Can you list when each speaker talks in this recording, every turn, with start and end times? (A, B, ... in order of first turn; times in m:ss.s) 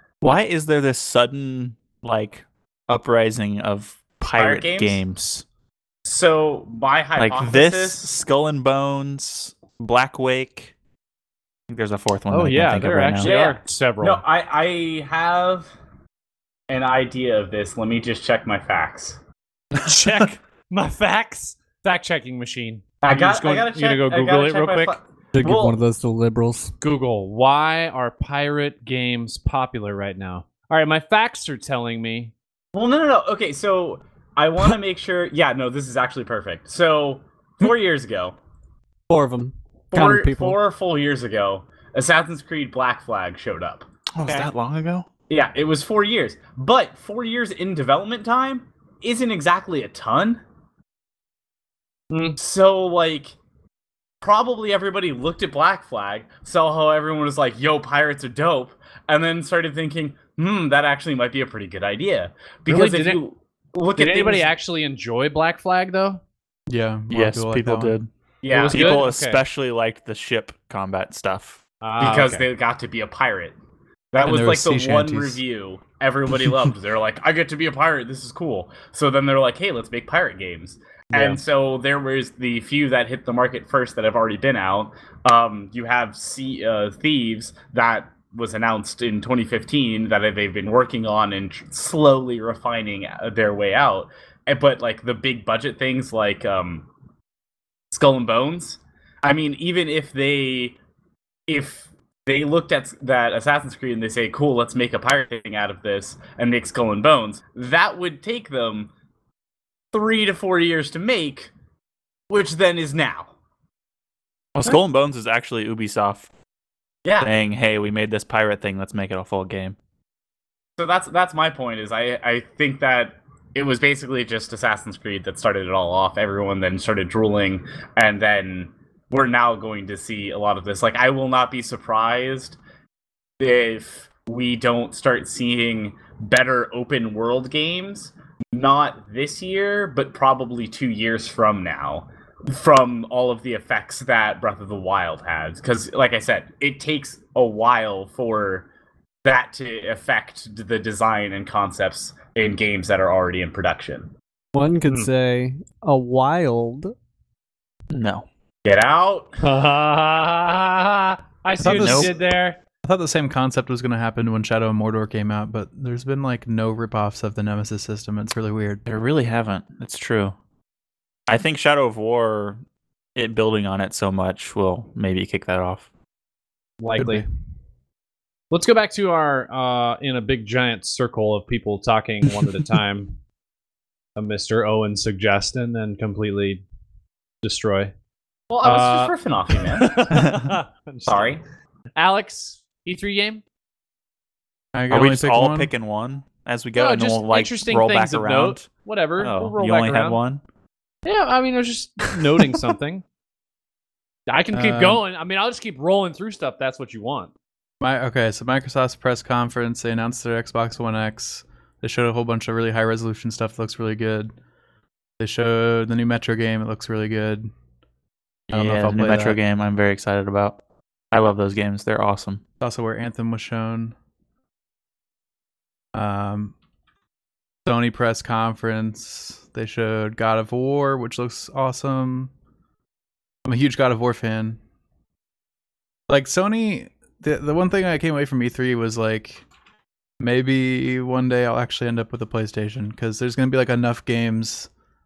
0:00.2-0:05.4 A
0:04.4-0:05.0 B
0:06.1-0:08.1 B
0:07.2-0:10.7 A
0:11.7-0:13.3 A
0:12.3-0:14.2 C
0:13.2-0:15.7 B
0:16.7-0:19.2 B
0:19.8-0:25.0 C
0:23.0-0:25.8 B
0:25.3-0:26.7 D
0:26.8-0:32.3 C
0:32.7-0:38.4 B
0:39.1-0:40.6 D
0:39.9-0:43.9 B
0:44.1-0:45.1 A
0:45.3-0:50.4 B
0:52.1-0:52.4 C
0:52.4-0:53.3 B
0:54.2-1:04.5 B
1:02.7-1:03.2 C
1:04.0-1:06.2 C
1:06.7-1:08.0 E
1:07.1-1:08.1 A
1:08.4-1:09.0 B
1:08.5-1:09.4 C
1:08.7-1:11.6 A
1:11.8-1:12.4 C
1:12.0-1:13.6 B
1:14.1-1:36.9 B
1:14.2-1:15.4 E
1:21.1-1:21.4 C
1:37.9-1:40.8 B
1:41.5-1:48.9 B
1:49.9-1:51.5 B
1:52.3-1:53.3 B
1:54.6-1:56.3 A
1:57.0-1:57.3 B
1:57.2-1:59.8 A
2:00.8-2:12.6 B
2:13.4-2:28.7 B
2:29.2-2:34.1 B
2:34.6-2:36.9 D
2:37.9-2:38.3 A
2:38.6-2:39.3 B
2:39.4-2:42.6 C
2:41.6-2:42.1 E
2:41.6-2:42.1 A
2:42.8-2:48.8 E
2:48.9-2:50.4 A
2:51.3-2:52.6 A
2:53.2-2:55.9 A
2:56.8-2:57.2 C
2:57.0-2:57.2 E
2:58.5-3:03.2 C
3:04.2-3:06.6 C
3:07.4-3:07.9 C
3:08.5-3:10.2 B
3:08.6-3:09.1 C
3:09.8-3:11.4 C
3:10.1-3:10.5 A
3:11.1-3:11.4 B
3:12.0-3:13.4 C
3:14.7-3:15.7 E
3:14.9-3:20.4 A
3:16.8-3:20.2 C
3:21.0-3:23.0 C
3:24.3-3:27.3 C
3:24.5-3:25.0 E
3:27.8-3:34.3 E
3:35.2-3:37.5 E
3:38.5-3:40.6 A
3:38.5-3:39.4 E
3:41.1-3:42.4 A
3:42.6-3:44.0 E
3:45.9-3:46.5 E
3:47.6-3:52.3 E
3:53.4-3:54.6 E
3:56.1-3:59.5 E
4:00.2-4:04.7 E